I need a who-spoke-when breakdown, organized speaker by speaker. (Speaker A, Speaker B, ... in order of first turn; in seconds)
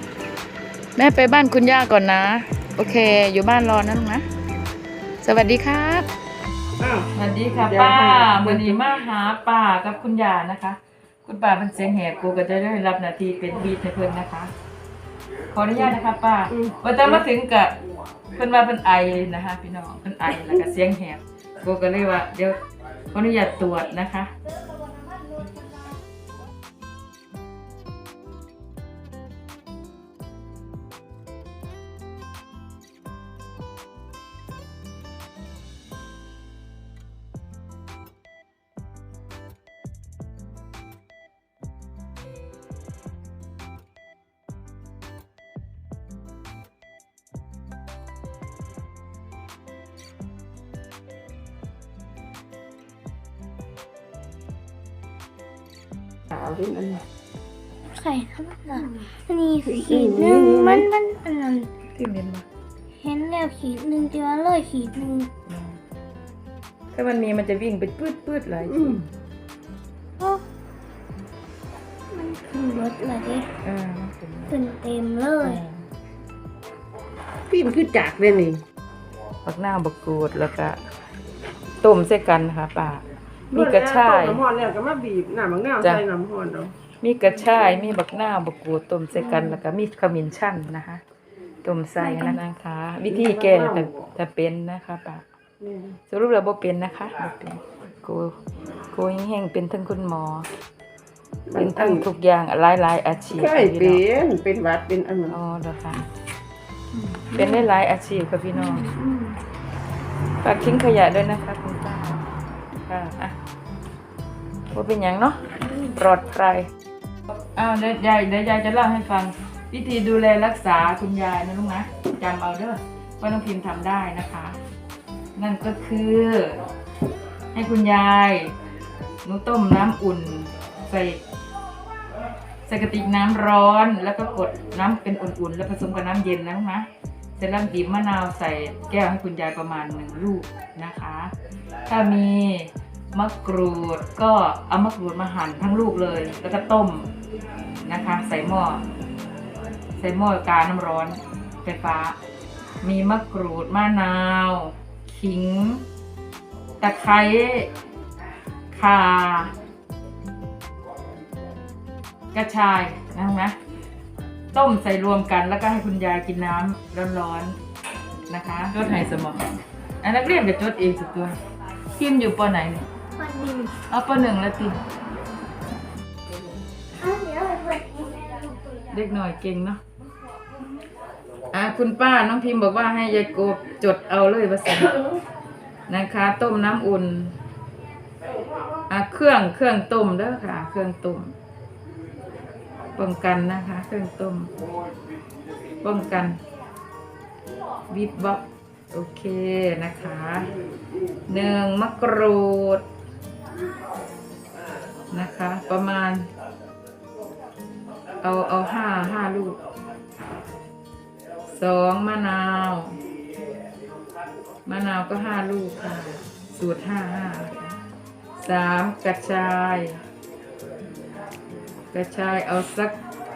Speaker A: 0.9-4.3, 5.2-6.1, 7.1-14.5, 15.5-17.8, 18.4-24.3, 61.9-62.5, 65.5-65.8, 66.9-69.0, 73.6-74.5, 75.4-75.9, 79.4-80.8, 81.8-84.4, 87.0-91.0, 91.6-95.2, 96.1-98.4, 98.9-100.5, 101.5-104.0, 105.3-106.0, 107.3-108.9, 110.4-112.2, 112.8-113.3, 114.7-116.7, 117.3-124.6, 125.3-126.6, 127.5-128.5, 129.2-131.2, 132.7-141.3, 141.8-147.1, 147.8-148.8, 150.0-152.2, 152.8-155.8, 156.8-157.7, 158.7-159.5, 162.3-163.5, 164.5-167.6, 168.3-171.3, 171.9-172.9, 173.8-174.8, 178.9-179.8, 181.5-185.1, 185.9-187.4, 188.9-191.3, 192.9-194.5, 195.8-196.4, 197.9-200.5, 201.3-202.8, 205.1-206.3, 208.2-209.6, 211.5-213.0, 214.6-217.8, 218.4-220.0, 221.9-223.0
Speaker B: 6.8-8.8, 16.5-17.2, 56.3-57.0, 59.6-60.9, 68.7-69.0, 77.5-78.6, 83.5-86.7, 93.1-94.1, 95.6-96.0, 101.5-102.0, 103.3-105.4
Speaker C: 57.9-61.7, 63.0-65.3, 72.1-73.5, 74.5-75.6, 92.0-92.3, 107.0-107.5, 108.6-109.1, 173.2-173.7, 177.0-178.5